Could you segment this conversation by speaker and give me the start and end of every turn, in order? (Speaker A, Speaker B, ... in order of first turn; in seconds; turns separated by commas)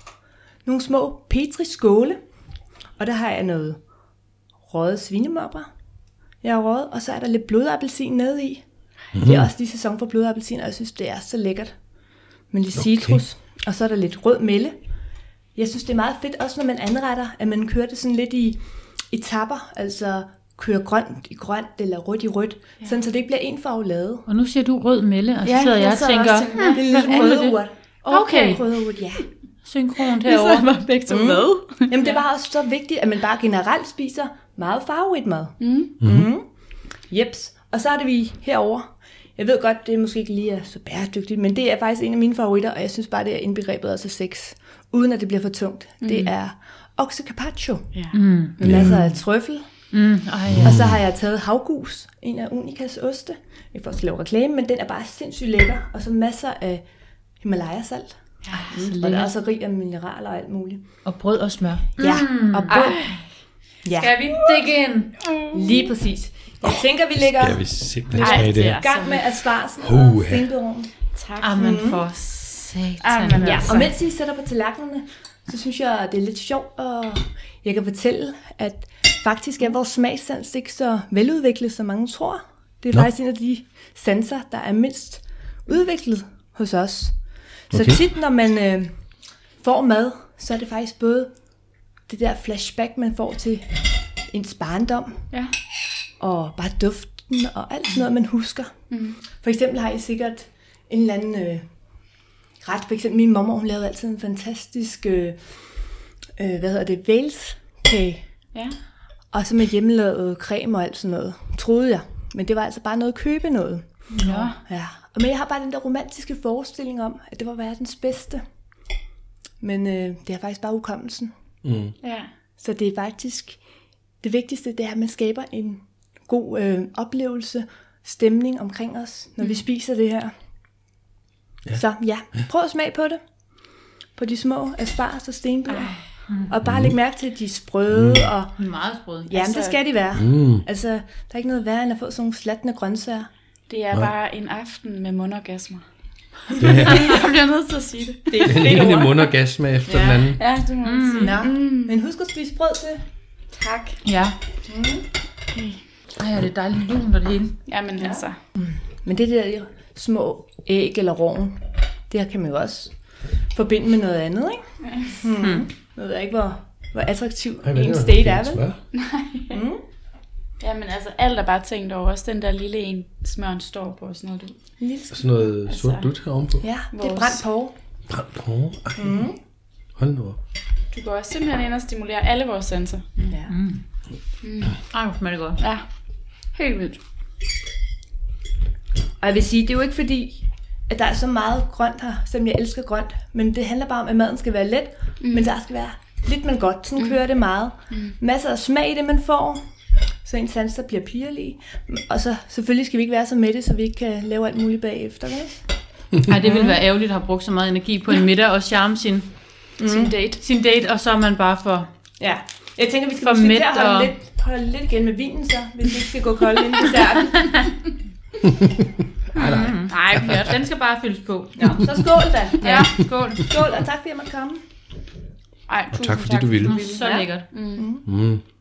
Speaker A: 0.7-2.2, Speaker A: 3.0-3.8, Speaker A: 4.7-5.7, Speaker A: 6.4-8.6, Speaker B: 9.1-9.5, Speaker A: 9.2-11.7, Speaker A: 12.5-14.8, Speaker B: 12.8-13.2, Speaker A: 15.6-18.6, Speaker A: 19.1-24.2, Speaker C: 24.3-27.6, Speaker D: 25.4-27.5, Speaker A: 26.5-29.3, Speaker D: 28.1-28.7, Speaker C: 29.6-30.7, Speaker D: 30.1-32.2, Speaker A: 31.1-36.5, Speaker D: 35.6-36.0, Speaker B: 36.0-36.3, Speaker A: 37.1-47.9, Speaker D: 46.0-46.3, Speaker C: 48.1-48.6, Speaker A: 48.6-49.7, Speaker B: 48.6-49.1, Speaker C: 49.9-50.8, Speaker B: 50.5-51.0, Speaker A: 50.6-56.8, Speaker A: 57.4-60.8, Speaker D: 58.5-58.8, Speaker C: 58.7-59.3, Speaker C: 61.0-63.0, Speaker A: 62.0-63.1, Speaker D: 62.7-63.2, Speaker A: 63.9-64.2, Speaker C: 64.0-65.2, Speaker D: 65.2-65.9, Speaker A: 65.5-67.6, Speaker B: 67.2-68.9, Speaker A: 68.1-70.9, Speaker D: 68.2-69.3, Speaker B: 69.8-70.5, Speaker D: 71.1-71.7, Speaker C: 71.4-73.8, Speaker A: 71.5-72.1, Speaker D: 73.0-73.9, Speaker A: 73.4-87.1, Speaker A: 87.7-88.9, Speaker B: 87.7-88.0, Speaker A: 89.6-91.3, Speaker A: 92.1-95.2, Speaker A: 96.2-98.7, Speaker D: 98.9-99.2, Speaker A: 99.4-101.7, Speaker A: 102.6-105.4, Speaker A: 106.4-108.2, Speaker A: 109.3-113.9, Speaker D: 114.1-114.6, Speaker C: 114.2-114.5, Speaker A: 114.7-118.4, Speaker A: 119.6-121.3, Speaker B: 121.6-121.9, Speaker D: 122.0-122.3, Speaker A: 122.6-123.6, Speaker A: 124.2-130.3, Speaker A: 131.7-133.2, Speaker A: 134.2-138.5, Speaker D: 135.7-136.0, Speaker B: 136.7-136.9, Speaker B: 137.9-138.3, Speaker C: 138.6-139.5, Speaker A: 139.3-143.3, Speaker D: 139.4-139.8, Speaker B: 140.2-140.7, Speaker D: 143.7-145.8, Speaker D: 146.5-148.9, Speaker B: 146.6-147.2, Speaker A: 148.3-149.3, Speaker B: 148.4-150.4, Speaker D: 149.9-152.0, Speaker C: 150.8-151.4, Speaker A: 151.2-153.0, Speaker D: 153.5-154.0, Speaker C: 154.0-154.4, Speaker A: 154.7-155.1, Speaker D: 155.5-155.8, Speaker C: 156.2-157.6, Speaker D: 157.7-158.4, Speaker A: 158.0-162.9, Speaker A: 163.5-168.6, Speaker B: 167.6-168.8, Speaker D: 168.9-169.6, Speaker A: 169.5-169.8, Speaker D: 170.6-174.6, Speaker A: 174.8-175.5, Speaker B: 175.1-176.7, Speaker D: 175.7-176.1, Speaker A: 176.6-177.8, Speaker D: 176.9-177.4, Speaker B: 178.1-179.3, Speaker A: 179.0-179.4, Speaker B: 180.0-180.4, Speaker D: 180.9-183.3, Speaker A: 183.3-183.6, Speaker C: 183.5-183.8, Speaker D: 184.4-184.8, Speaker C: 184.9-185.6, Speaker D: 185.6-185.8, Speaker D: 186.5-187.0, Speaker A: 189.2-199.6, Speaker D: 195.2-195.5, Speaker A: 200.2-205.6, Speaker C: 206.3-209.3, Speaker A: 206.4-206.8, Speaker A: 209.8-210.3, Speaker D: 209.9-210.3, Speaker C: 210.0-211.9, Speaker A: 212.2-217.6, Speaker C: 213.2-214.1, Speaker C: 217.4-217.7, Speaker B: 218.4-220.3, Speaker C: 219.4-222.1, Speaker D: 219.9-220.6, Speaker A: 221.6-224.6, Speaker C: 222.6-223.6, Speaker D: 222.6-223.1, Speaker D: 225.7-227.9, Speaker B: 225.9-226.8, Speaker C: 226.6-227.5, Speaker A: 227.0-228.1, Speaker B: 228.1-228.4